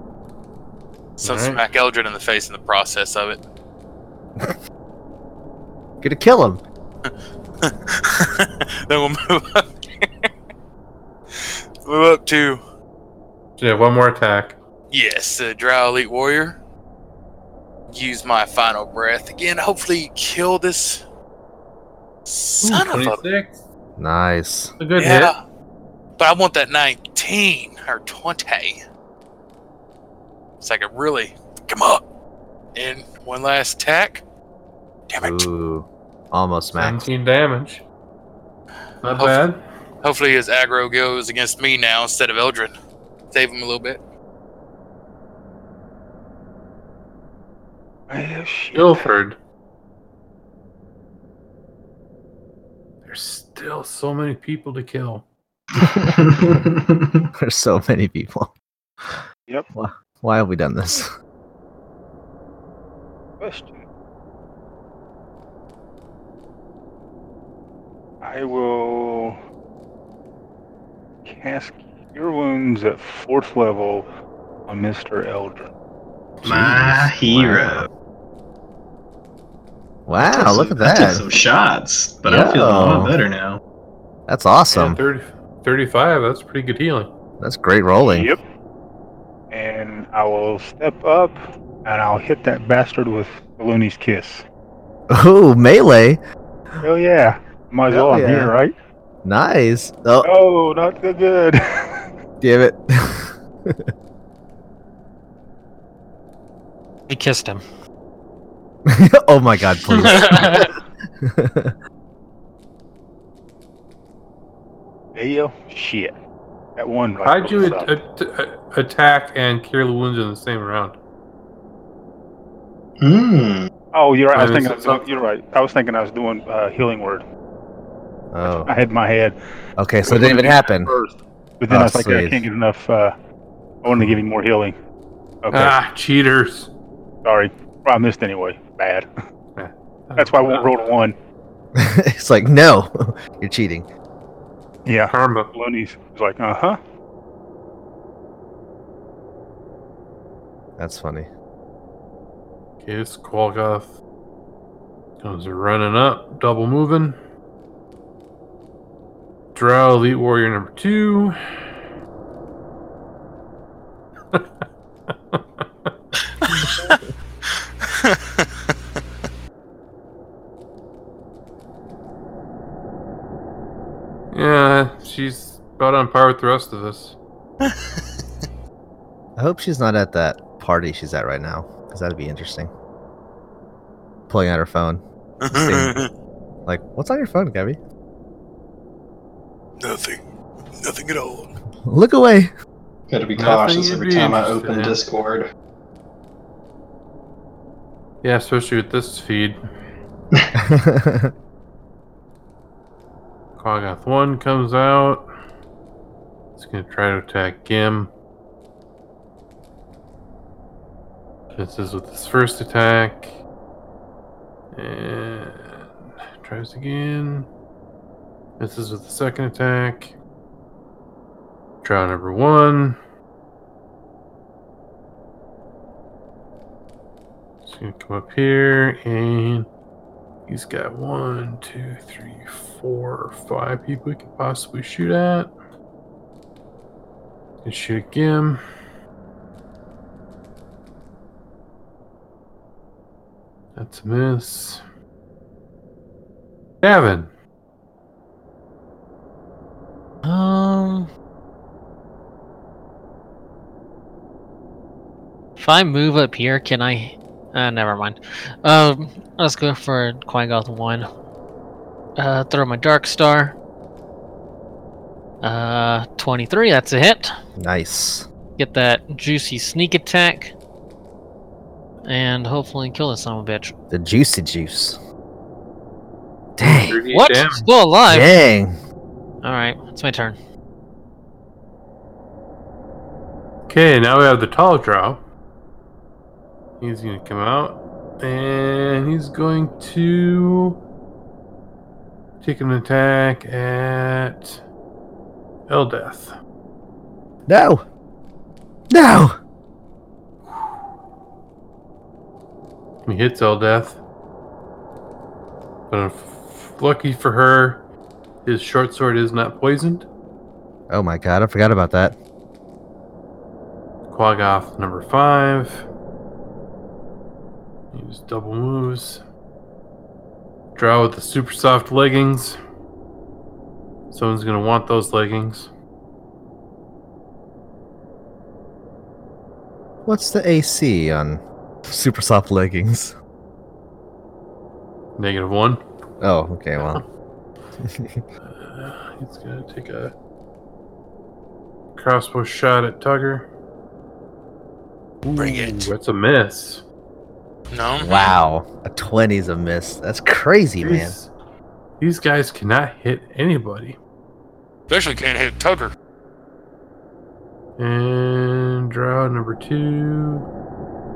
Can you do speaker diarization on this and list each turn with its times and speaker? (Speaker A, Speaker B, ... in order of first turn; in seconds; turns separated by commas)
Speaker A: 1.2-3.4, Speaker B: 1.2-1.6, Speaker C: 6.0-6.6, Speaker A: 7.0-10.3, Speaker A: 11.3-12.6, Speaker B: 13.6-14.6, Speaker A: 14.9-16.6, Speaker A: 17.9-21.0, Speaker A: 22.3-23.2, Speaker B: 22.6-23.6, Speaker C: 24.0-24.7, Speaker B: 24.8-25.3, Speaker A: 25.0-25.4, Speaker A: 26.2-28.8, Speaker A: 30.6-32.0, Speaker A: 32.7-34.2, Speaker A: 35.1-35.5, Speaker C: 35.2-37.1, Speaker B: 36.7-37.8, Speaker B: 39.0-39.6, Speaker A: 40.0-42.7, Speaker A: 43.3-44.0, Speaker D: 48.1-49.1, Speaker B: 48.7-49.4, Speaker B: 53.0-55.2, Speaker E: 55.8-57.2, Speaker C: 57.4-58.5, Speaker C: 59.7-61.1, Speaker D: 63.4-63.8, Speaker D: 68.2-69.4, Speaker D: 71.2-74.0, Speaker D: 74.7-75.7, Speaker C: 76.4-77.9, Speaker E: 76.4-77.9, Speaker C: 80.1-81.2, Speaker E: 80.3-83.6, Speaker C: 82.2-83.1, Speaker C: 84.3-85.0, Speaker B: 84.7-87.1, Speaker C: 87.4-88.3, Speaker D: 88.0-88.4, Speaker D: 89.5-94.4, Speaker C: 95.1-96.2, Speaker D: 96.8-98.7, Speaker C: 97.9-98.5, Speaker C: 99.2-100.3, Speaker D: 100.2-101.6, Speaker C: 102.4-103.9, Speaker F: 107.1-107.6, Speaker C: 108.9-110.7, Speaker F: 109.9-110.7, Speaker C: 111.2-111.7, Speaker D: 115.1-116.1, Speaker D: 116.8-117.9, Speaker B: 117.2-121.0, Speaker E: 123.0-123.7, Speaker D: 123.9-127.2, Speaker B: 124.3-125.0, Speaker C: 128.3-128.7, Speaker D: 128.4-129.3, Speaker C: 129.8-130.9, Speaker D: 130.0-133.1, Speaker C: 131.7-132.4, Speaker D: 133.8-134.7, Speaker D: 135.4-135.8, Speaker B: 135.5-136.7, Speaker D: 137.2-139.1, Speaker B: 139.6-140.7, Speaker D: 140.2-141.1, Speaker C: 141.7-143.9, Speaker D: 144.8-146.8, Speaker B: 145.1-145.5, Speaker C: 150.8-151.3, Speaker B: 152.8-154.0, Speaker B: 155.2-157.2, Speaker B: 159.5-161.4, Speaker B: 164.3-165.9, Speaker A: 166.4-168.7, Speaker B: 166.4-166.7, Speaker B: 174.3-177.2, Speaker A: 177.6-178.0, Speaker C: 179.4-182.7, Speaker C: 184.3-186.0, Speaker A: 185.4-186.1, Speaker C: 186.7-187.8, Speaker A: 189.8-190.2, Speaker A: 190.7-191.5, Speaker C: 191.9-192.5, Speaker E: 193.1-195.5, Speaker B: 193.3-195.0, Speaker B: 198.2-199.6, Speaker C: 200.6-201.3, Speaker B: 203.6-205.2, Speaker B: 206.6-208.1, Speaker B: 211.5-213.4, Speaker B: 214.7-217.5, Speaker B: 218.6-220.1, Speaker B: 221.8-223.0, Speaker B: 227.6-229.7, Speaker B: 230.5-235.5, Speaker B: 237.6-238.6, Speaker B: 243.8-244.8, Speaker B: 246.8-247.3, Speaker F: 250.2-251.1, Speaker F: 255.6-261.1, Speaker F: 262.2-263.6, Speaker F: 265.4-267.3, Speaker C: 267.6-268.3, Speaker F: 268.6-270.5, Speaker F: 272.1-273.7, Speaker C: 273.9-275.0, Speaker C: 276.6-277.0, Speaker B: 276.6-277.6, Speaker F: 277.1-278.4, Speaker C: 278.1-278.7, Speaker F: 279.4-280.4, Speaker B: 283.7-285.2, Speaker B: 286.8-290.8, Speaker B: 292.4-294.6, Speaker B: 295.7-296.3, Speaker C: 297.5-297.8, Speaker C: 298.9-299.4, Speaker B: 303.0-304.0, Speaker B: 305.9-307.8, Speaker B: 308.4-310.1, Speaker C: 310.9-312.2, Speaker B: 314.1-315.9, Speaker B: 317.9-319.2, Speaker B: 320.7-322.6, Speaker B: 324.1-325.7, Speaker C: 330.0-333.1, Speaker B: 335.2-335.8, Speaker C: 336.2-337.0, Speaker C: 337.8-338.2, Speaker B: 338.4-340.1, Speaker B: 341.9-343.5, Speaker B: 345.2-346.8, Speaker A: 345.4-345.9, Speaker A: 347.7-348.3, Speaker C: 348.0-351.2, Speaker B: 350.8-351.3, Speaker B: 352.0-354.0, Speaker A: 354.9-355.9, Speaker B: 357.8-360.4